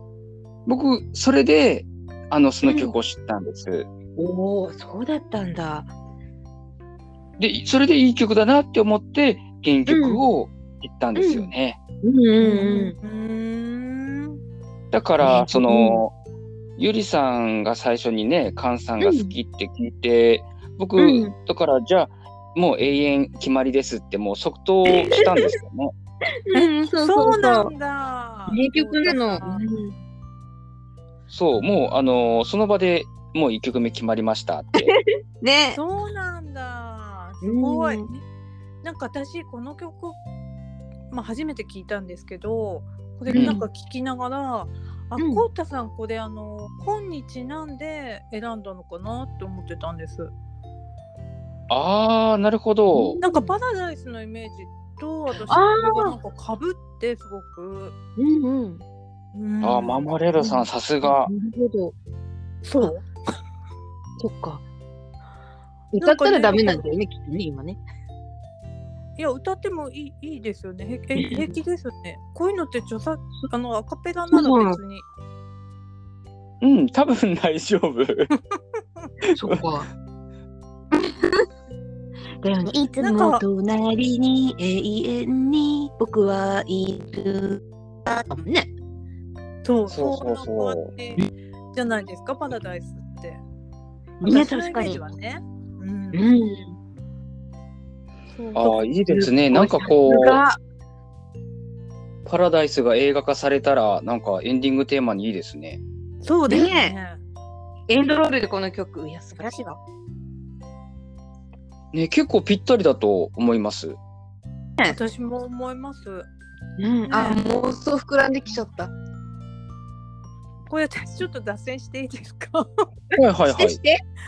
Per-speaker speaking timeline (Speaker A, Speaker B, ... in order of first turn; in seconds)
Speaker A: 0.7-3.9, 7.4-11.8, 14.9-16.1, 16.8-25.9, 31.3-34.9, 51.7-53.2, 59.6-61.3, 76.6-78.3, 89.9-90.9, 98.5-100.4, 102.2-105.8, 111.9-114.0, 123.2-123.8
Speaker B: 2.6-3.0, 4.2-5.9, 9.9-10.2, 11.2-11.5, 12.0-13.0, 15.2-16.0, 19.0-19.3, 21.0-21.3, 25.2-25.5, 26.5-27.7, 28.5-29.9, 34.8-35.8, 37.4-38.1, 43.3-43.6, 45.2-45.5, 52.9-53.5, 55.5-56.2, 58.2-58.8, 60.4-62.0, 64.2-64.6, 65.9-67.8, 71.2-71.5, 74.3-74.8, 79.3-79.9, 80.9-81.4, 82.4-88.7, 94.2-95.0, 96.1-96.7, 99.1-100.6, 106.5-107.0, 107.9-109.8, 116.8-118.9, 123.4-124.0
Speaker C: 12.4-14.4, 26.5-29.6, 35.8-38.2, 38.8-40.2, 41.1-50.3, 53.2-57.9, 59.4-60.1, 62.6-63.1, 66.0-66.9, 69.2-75.0, 83.0-83.4, 89.6-91.2, 91.7-93.4, 94.2-96.2, 98.3-98.9, 106.2-107.2, 114.8-116.3, 117.1-117.4, 120.7-122.8